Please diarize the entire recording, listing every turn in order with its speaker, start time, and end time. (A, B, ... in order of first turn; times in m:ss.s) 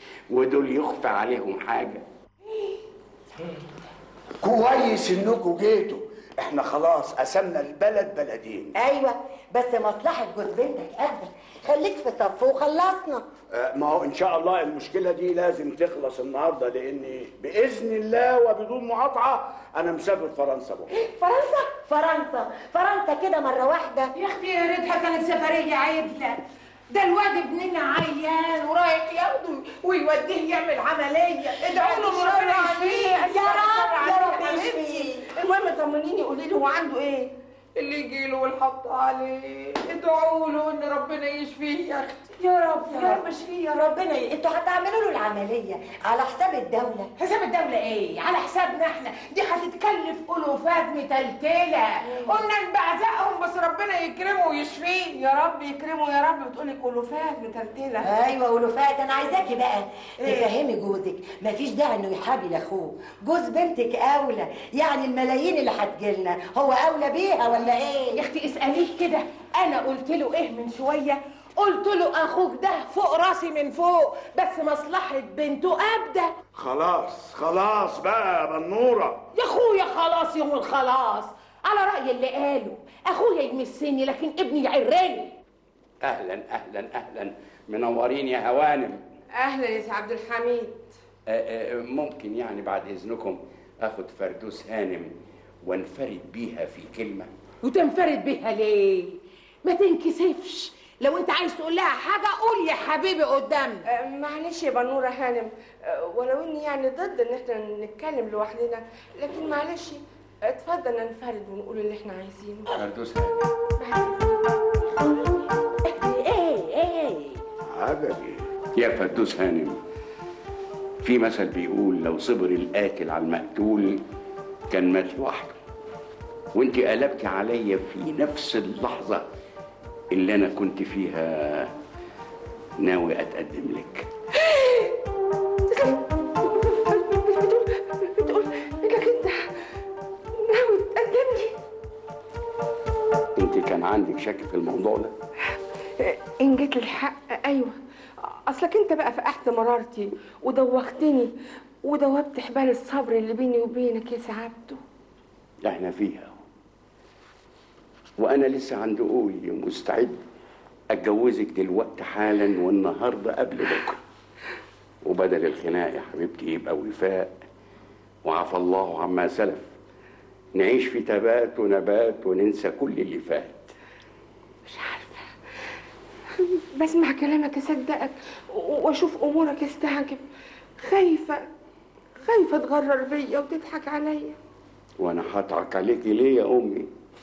0:00.3-0:02.0 A
0:04.4-0:08.7 B
0:08.8-0:13.3 C
0:13.5-0:20.9 B
0:21.8-0:24.1 C
0:24.2-0:33.3 D
0:31.6-0:42.3 E
0:33.3-0:35.3 C
0:38.0-0:39.0 D
0:40.0-0:43.8 D
0:42.9-0:43.2 E
0:42.9-0:43.2 C
0:43.7-0:47.1 C
0:47.2-0:55.1 D
0:52.1-0:52.4 E
0:55.1-0:58.1 E
0:58.0-1:08.2 C
1:08.1-1:16.3 D
1:16.6-1:19.2 B
1:19.3-1:25.4 D
1:26.0-1:29.0 A
1:29.4-1:30.9 E
1:31.3-1:35.1 A
1:35.6-1:37.3 A
1:37.6-1:43.8 D
1:43.8-1:52.7 E
1:52.7-1:53.5 A
1:53.8-1:54.4 E
1:56.0-1:57.4 D
1:57.7-1:58.4 B
1:58.8-1:59.8 A
2:01.0-2:04.0 A
2:04.7-2:05.6 A
2:06.6-2:09.3 A
2:10.1-2:11.7 A
2:12.8-2:14.1 A
2:14.4-2:15.0 E
2:15.7-2:19.5 E
2:20.4-2:21.6 E
2:23.4-2:25.1 A
2:26.0-2:31.3 E
2:31.8-2:34.8 E
2:35.6-2:36.4 A
2:38.2-2:40.2 A
2:40.9-2:44.0 A
2:45.0-2:47.3 A
2:48.2-2:49.7 A
2:50.6-2:53.7 A
2:54.7-2:55.3 E
2:56.3-3:00.2 E
3:00.8-3:01.4 E
3:02.2-3:04.4 E
3:05.0-3:06.9 A